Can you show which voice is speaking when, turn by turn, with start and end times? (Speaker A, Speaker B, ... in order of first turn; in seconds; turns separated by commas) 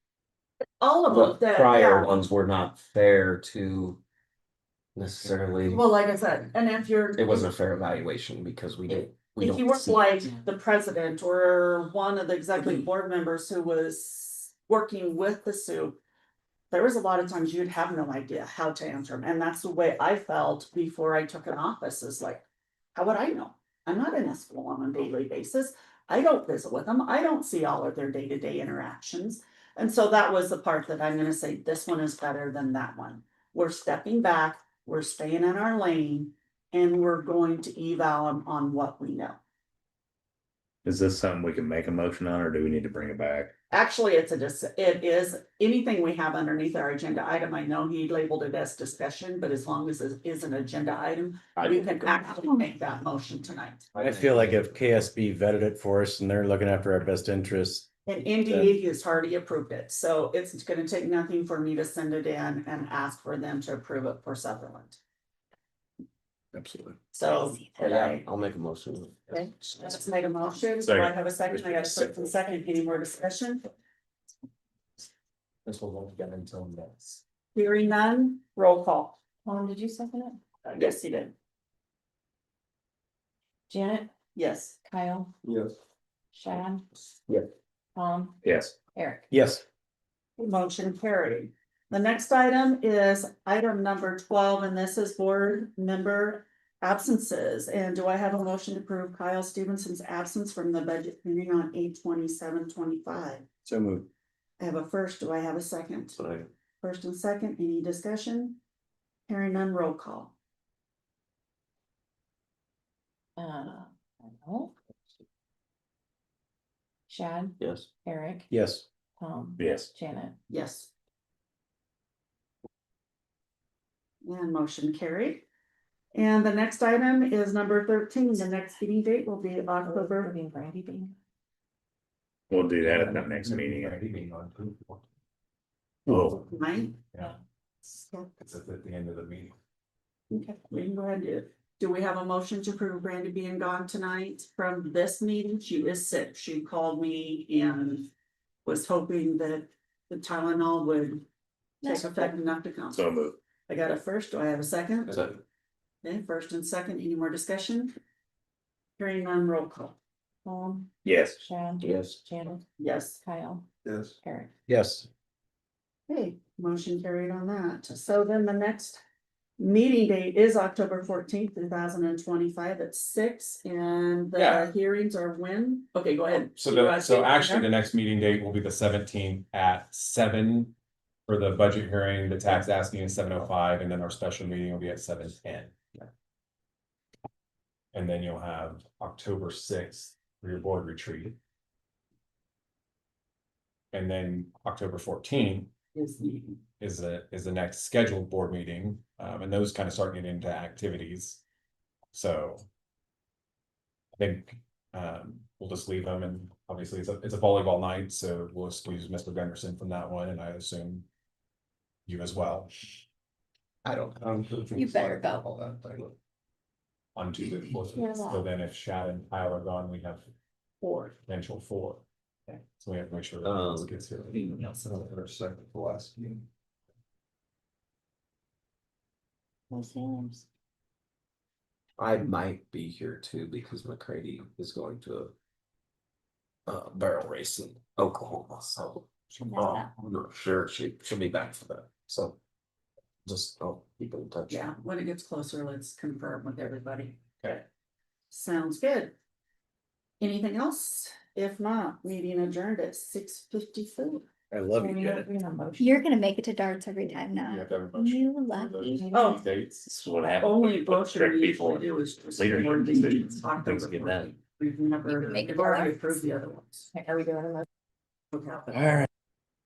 Speaker A: 0.8-2.1, Speaker B: 1.1-4.0, Speaker B: 4.9-5.8, Speaker A: 5.7-7.5, Speaker B: 7.2-9.9, Speaker A: 9.4-16.0, Speaker A: 16.7-22.4, Speaker A: 22.9-39.4, Speaker C: 40.8-43.5, Speaker A: 43.7-53.8, Speaker B: 51.6-52.2, Speaker B: 53.9-55.0, Speaker D: 54.0-57.9, Speaker A: 58.0-65.0, Speaker B: 66.6-66.9, Speaker A: 67.1-68.2, Speaker B: 67.8-69.4, Speaker A: 69.3-73.7, Speaker C: 70.8-72.2, Speaker E: 75.6-77.2, Speaker A: 77.5-79.2, Speaker F: 79.4-80.4, Speaker A: 80.6-81.3, Speaker F: 83.7-84.1, Speaker A: 84.3-84.8, Speaker F: 84.8-85.3, Speaker F: 86.3-86.8, Speaker F: 87.9-89.3, Speaker C: 88.4-88.8, Speaker D: 89.3-89.6, Speaker A: 90.4-103.4, Speaker D: 103.7-104.1, Speaker A: 104.6-106.2, Speaker B: 106.2-106.5, Speaker A: 106.8-108.6, Speaker A: 109.3-110.3, Speaker F: 113.4-114.7, Speaker F: 117.1-118.5, Speaker B: 117.6-117.9, Speaker D: 118.5-118.8, Speaker F: 119.2-120.4, Speaker C: 119.6-119.9, Speaker A: 120.5-120.9, Speaker A: 124.2-125.5, Speaker A: 126.1-130.3, Speaker F: 129.8-131.1, Speaker C: 132.5-134.0, Speaker E: 132.6-135.0, Speaker C: 136.1-136.4, Speaker E: 136.1-136.4, Speaker A: 136.5-137.0, Speaker E: 138.3-139.5, Speaker A: 140.3-148.1, Speaker A: 148.6-151.2, Speaker A: 151.8-153.0, Speaker G: 151.8-152.2, Speaker C: 152.9-153.3, Speaker A: 153.7-155.3, Speaker B: 155.1-155.4, Speaker A: 156.0-157.9, Speaker A: 159.0-160.0, Speaker F: 160.4-162.6, Speaker C: 161.0-161.4, Speaker B: 161.8-162.2, Speaker A: 162.8-163.2, Speaker F: 163.2-163.7, Speaker F: 164.2-164.5, Speaker D: 164.7-165.1, Speaker A: 166.1-169.0, Speaker A: 169.6-177.7, Speaker E: 174.4-174.7, Speaker E: 176.6-180.8, Speaker E: 181.3-185.8, Speaker E: 187.9-191.4, Speaker E: 193.9-195.7, Speaker A: 195.9-196.6, Speaker E: 196.8-201.4, Speaker E: 202.1-202.6, Speaker E: 204.2-211.1, Speaker E: 212.1-212.7, Speaker B: 213.8-216.1, Speaker F: 214.8-215.4, Speaker E: 217.1-220.3, Speaker F: 218.0-218.3, Speaker A: 220.8-221.1, Speaker E: 221.2-225.0, Speaker B: 223.4-223.9, Speaker G: 229.8-230.4, Speaker B: 232.0-235.3, Speaker B: 236.7-242.4, Speaker G: 239.5-239.8, Speaker B: 243.2-244.7, Speaker A: 244.5-247.2, Speaker A: 248.3-249.1, Speaker A: 250.2-254.2, Speaker D: 254.5-255.3, Speaker F: 254.7-256.1, Speaker G: 255.8-259.0, Speaker E: 257.5-259.9, Speaker F: 258.9-259.3, Speaker A: 259.1-259.4, Speaker C: 259.9-264.3, Speaker A: 260.3-266.9, Speaker G: 265.1-266.0, Speaker F: 266.9-267.6, Speaker A: 268.3-269.0